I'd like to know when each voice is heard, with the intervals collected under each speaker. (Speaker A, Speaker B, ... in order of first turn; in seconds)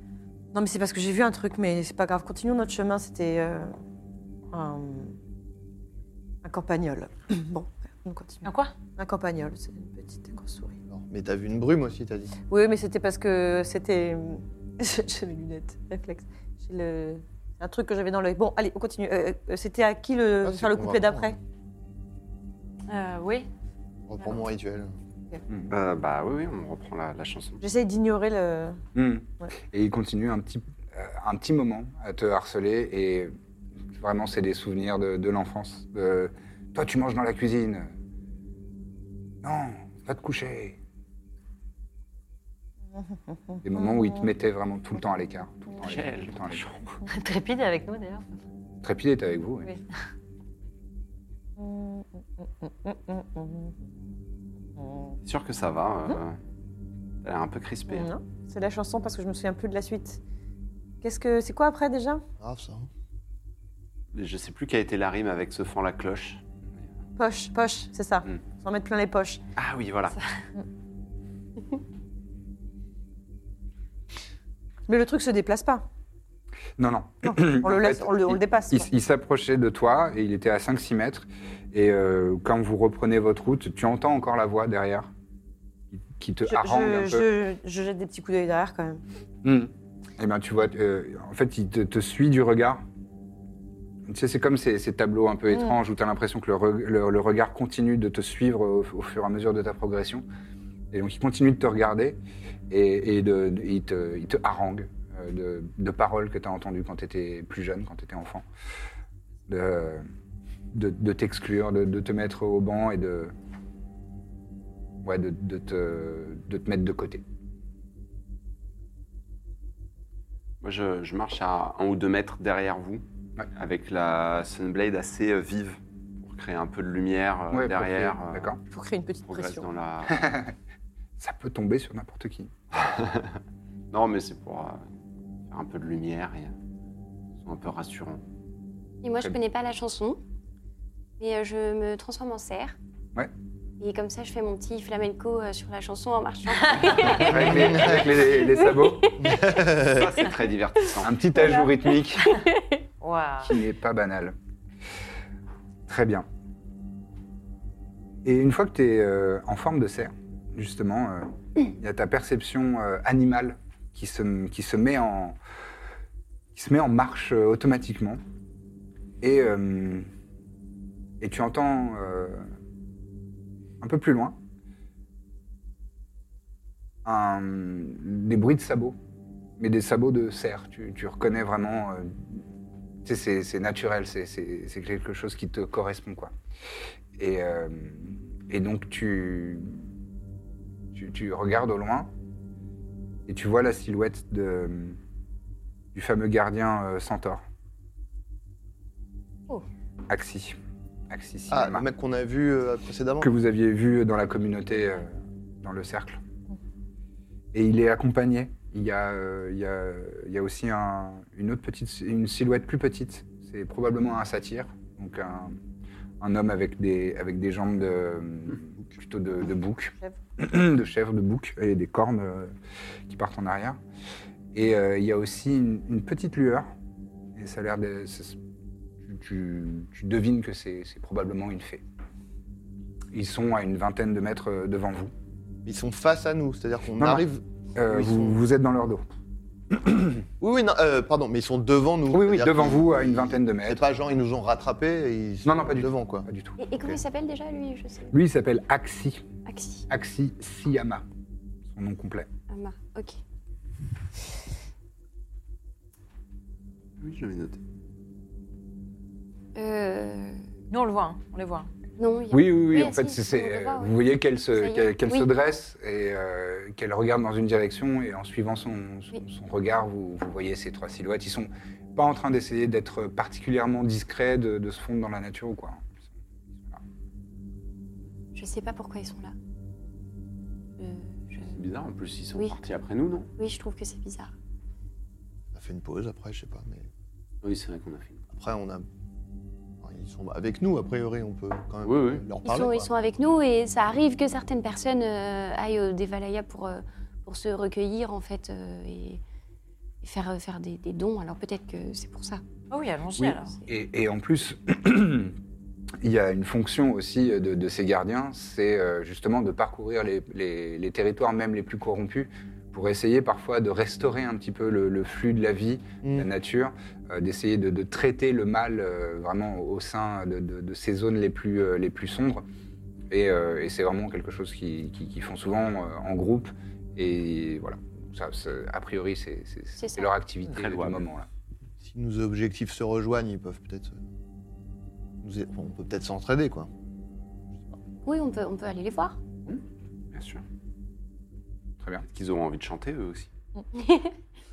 Speaker A: 0.5-3.7, 4.5-5.2, 6.4-8.4, 9.0-10.8, 12.5-21.4, 27.6-28.8, 42.9-44.3, 51.6-53.8, 54.8-55.2, 57.9-60.2, 61.0-62.2, 67.2-69.4, 74.9-75.8, 77.2-78.9, 86.5-89.0, 95.5-95.8, 128.7-129.7
Speaker B: 8.4-8.7, 22.9-23.5, 47.1-48.3, 153.0-153.6, 260.7-261.7, 302.7-303.6
Speaker C: 10.9-12.3, 20.4-21.4, 24.1-25.0, 62.4-62.9, 147.3-148.2, 149.1-150.2, 201.5-203.3, 235.7-238.4, 240.4-246.3, 285.5-286.9, 288.3-288.9, 289.8-292.9, 316.0-316.3, 331.8-334.0, 335.2-336.7
Speaker D: 25.7-27.6, 45.8-47.0, 55.2-56.4, 57.2-58.1, 64.1-66.4, 69.6-70.2, 120.6-128.5, 129.3-130.3, 132.7-133.4, 133.9-134.8, 135.5-136.6, 137.4-138.2, 149.9-151.1, 257.0-257.6, 281.5-283.3, 287.4-288.2, 291.8-292.3, 330.5-331.0, 340.1-340.4, 342.1-343.3
Speaker E: 28.9-33.3, 34.0-37.9, 39.4-40.8, 43.6-46.7, 48.8-49.7, 76.8-85.1, 85.9-87.3, 89.4-92.8, 94.1-100.2, 100.9-102.2, 102.7-108.5, 109.5-110.1, 110.7-113.3, 115.0-117.2, 127.5-128.6, 130.1-130.6, 131.2-132.5, 147.2-149.2, 151.0-152.4, 153.5-154.4, 155.9-156.3, 158.2-165.4, 166.5-168.2, 169.2-170.1, 171.2-172.5, 173.8-174.4, 177.1-179.0, 179.6-182.4, 183.0-186.3, 187.2-189.9, 190.9-192.1, 193.3-195.0, 195.9-197.4, 200.1-200.6, 201.1-201.8, 203.2-206.2, 207.5-215.6, 216.2-222.5, 223.1-223.8, 224.5-226.7, 227.3-228.4, 229.0-231.8, 233.1-235.1, 237.0-237.2, 237.8-239.0, 239.7-240.2, 242.1-243.8, 245.4-246.6, 248.1-249.2, 249.9-251.1, 251.7-252.3, 262.3-275.9, 303.2-305.4, 306.0-322.4, 323.1-331.3, 341.8-342.1
Speaker F: 139.0-140.2, 141.2-142.8, 143.8-149.5, 151.3-151.7, 246.6-248.2, 249.5-249.9, 252.5-253.2, 259.6-260.4, 262.0-265.3, 278.4-279.4, 280.8-281.6, 283.4-284.3, 292.4-299.2, 300.0-302.4, 329.8-330.1, 338.1-339.2, 343.8-344.1